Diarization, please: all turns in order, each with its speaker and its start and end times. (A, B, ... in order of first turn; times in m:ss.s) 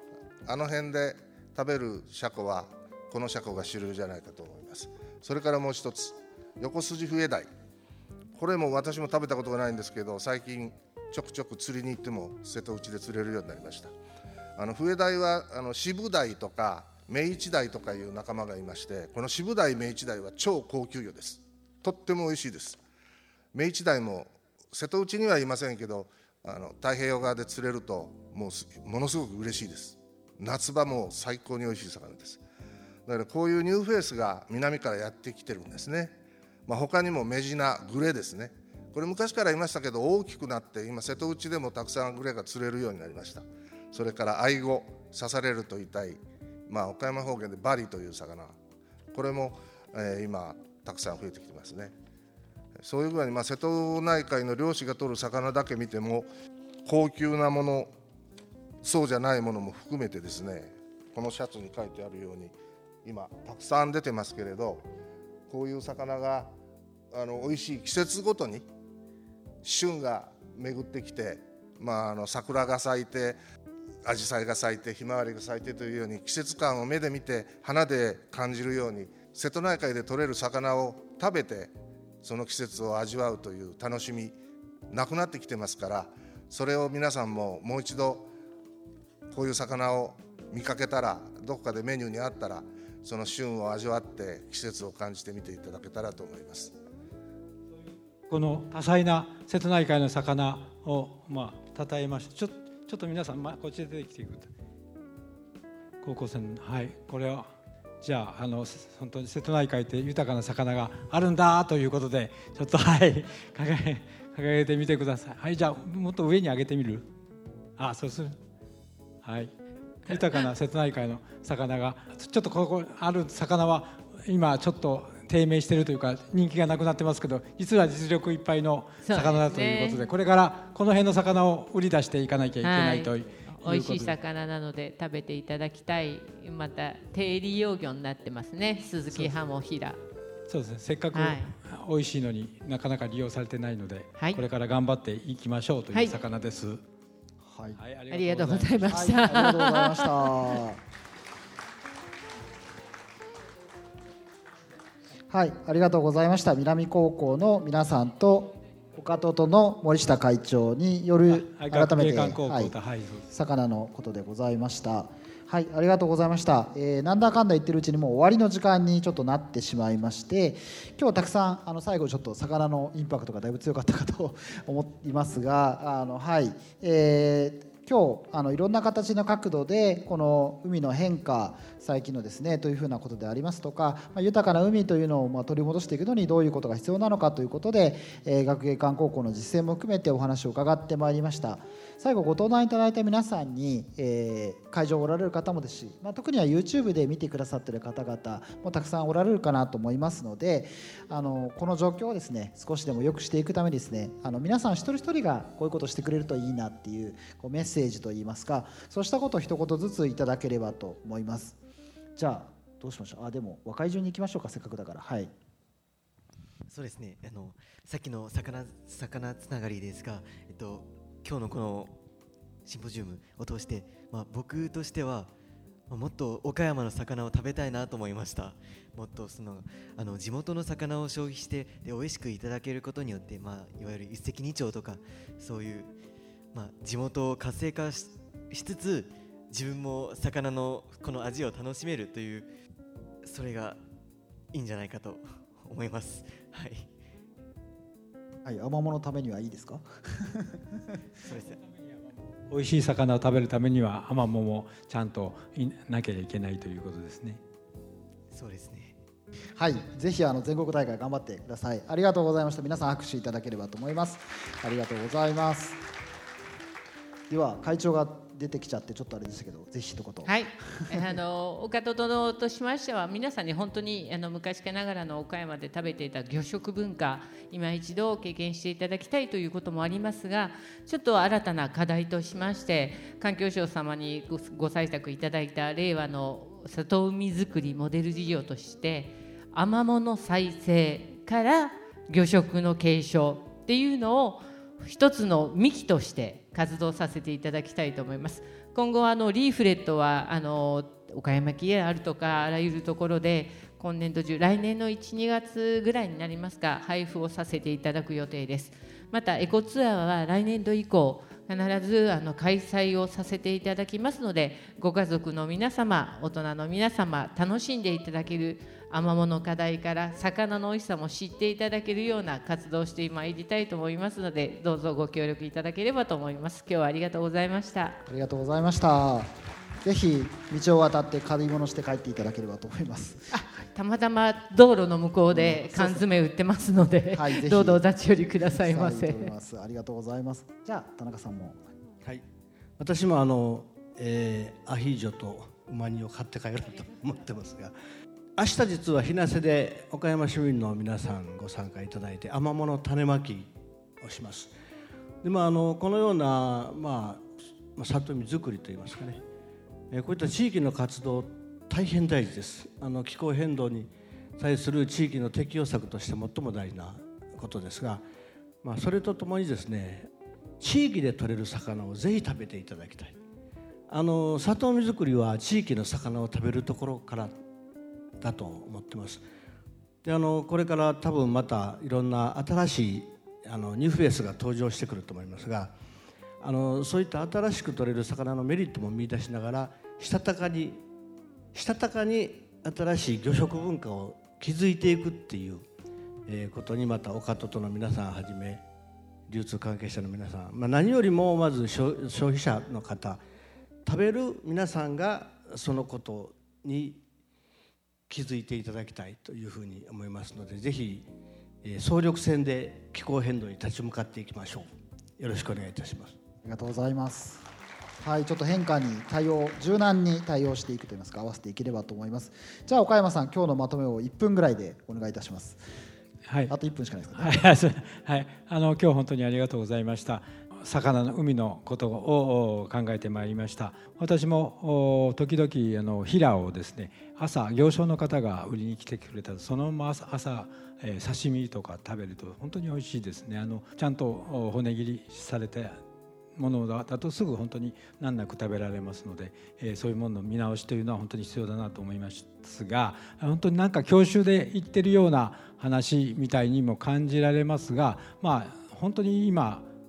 0:00.5-0:07.5 A
0:08.4-0:13.9 A
0:14.6-0:22.8 A
0:23.5-0:32.4 A
0:33.1-0:48.6 A
0:49.1-0:51.9 A
0:52.8-0:56.3 A
0:56.8-0:57.9 A
0:58.8-1:04.8 A
1:05.5-1:06.5 A
1:07.1-1:08.7 A
1:09.6-1:13.4 A
1:14.0-1:24.4 A
1:24.9-1:28.3 A
1:29.3-1:36.7 A
1:38.3-1:44.5 B
1:46.0-1:47.5 B
1:48.0-1:57.1 B
1:57.8-1:58.4 B
1:59.2-1:59.5 B
2:00.0-2:14.2 B
2:09.0-2:10.0 C
2:12.6-2:20.0 C
2:20.5-2:26.8 B
2:21.1-2:21.5 C
2:24.2-2:24.4 C
2:27.4-2:27.8 D
2:27.8-2:29.0 B
2:28.1-2:30.2 C
2:28.9-2:30.8 D
2:35.3-2:42.8 D
2:41.3-2:43.3 B
2:43.3-3:31.6 D
3:32.2-3:35.3 D
3:36.7-3:42.0 E
3:42.6-3:45.3 E
3:45.9-3:55.9 E
3:56.5-4:02.5 E
4:03.2-4:03.8 E
4:04.5-4:06.9 E
4:08.4-4:10.6 D
4:11.2-4:11.6 E
4:11.3-4:17.4 B
4:18.3-4:19.0 E
4:19.6-4:25.8 D
4:27.3-4:31.1 D
4:30.2-5:28.0 C
5:28.1-5:33.4 D
5:33.3-5:39.3 C
5:35.3-5:36.1 D
5:37.1-5:41.6 D
5:42.8-5:47.7 F
5:48.4-5:54.5 F
5:55.2-5:59.2 F
5:59.9-6:08.0 F
6:08.6-6:10.1 F
6:10.6-6:13.2 F
6:13.9-6:17.4 F
6:18.2-6:19.2 F
6:20.0-6:25.8 F
6:26.4-6:30.8 F
6:31.5-6:35.7 F
6:36.3-6:38.6 F
6:39.3-6:43.2 F
6:43.8-6:47.0 F
6:48.1-6:51.1 F
6:51.6-6:54.7 F
6:55.2-6:56.2 F
6:56.4-6:57.5 D
6:58.0-7:05.6 D
7:06.3-7:06.5 B
7:06.5-7:07.4 D
7:07.2-7:25.8 B
7:26.4-7:39.7 B